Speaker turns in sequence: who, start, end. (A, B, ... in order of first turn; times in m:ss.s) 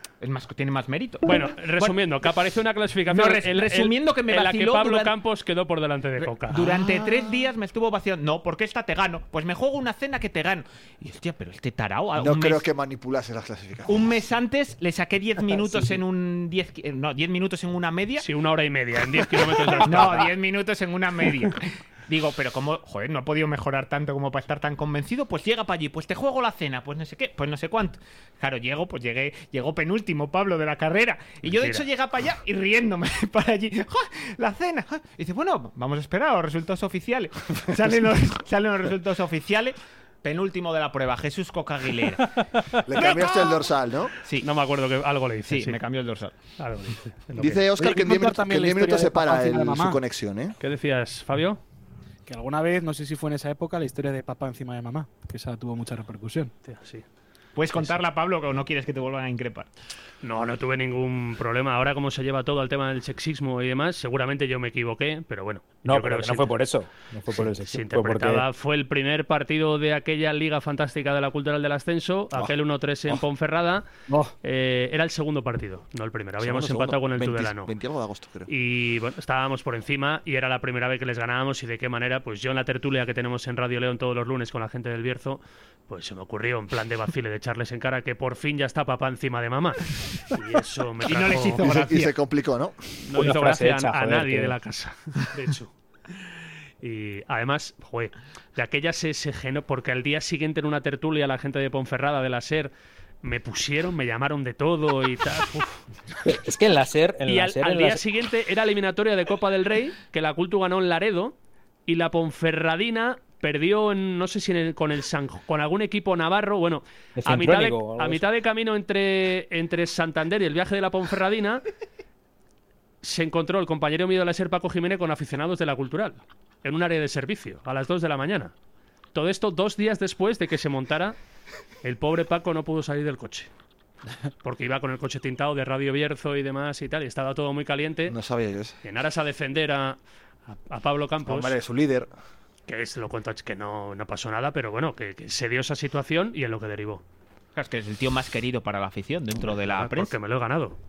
0:00.2-0:02.0 A
0:01.2-0:06.7 B
0:03.1-0:05.1 A
0:06.2-0:12.6 A
0:12.2-0:14.1 C
0:13.9-0:18.3 A
0:18.2-0:20.3 B
0:19.8-0:42.3 A
0:31.6-0:31.9 B
0:42.4-0:43.3 B
0:42.9-0:44.1 C
0:44.2-0:44.5 A
0:44.4-0:45.8 B
0:45.5-0:46.3 A
0:46.6-0:47.7 B
0:47.4-0:50.6 C
0:47.8-0:50.0 D
0:50.6-0:51.6 B
0:52.3-0:56.5 D
0:56.7-0:57.0 B
0:57.6-0:59.7 A
1:00.2-1:06.5 B
1:05.8-1:08.5 E
1:07.3-1:13.9 B
1:14.1-1:14.3 D
1:14.4-1:17.7 B
1:16.4-1:18.5 C
1:18.5-1:31.7 B
1:31.0-1:32.2 A
1:31.6-1:33.0 C
1:33.1-1:35.7 B
1:33.2-1:34.6 E
1:36.8-1:42.7 B
1:43.2-1:45.8 B
1:46.2-1:48.0 E
1:47.3-1:51.4 B
1:51.9-2:01.6 B
1:57.2-1:58.2 E
2:03.0-2:08.5 B
2:09.1-2:11.2 B
2:11.8-2:13.5 B
2:14.4-2:18.2 B
2:18.1-2:18.8 C
2:18.8-2:21.6 B
2:21.2-2:22.1 C
2:22.7-2:27.0 B
2:27.6-2:30.2 A
2:29.4-2:30.8 B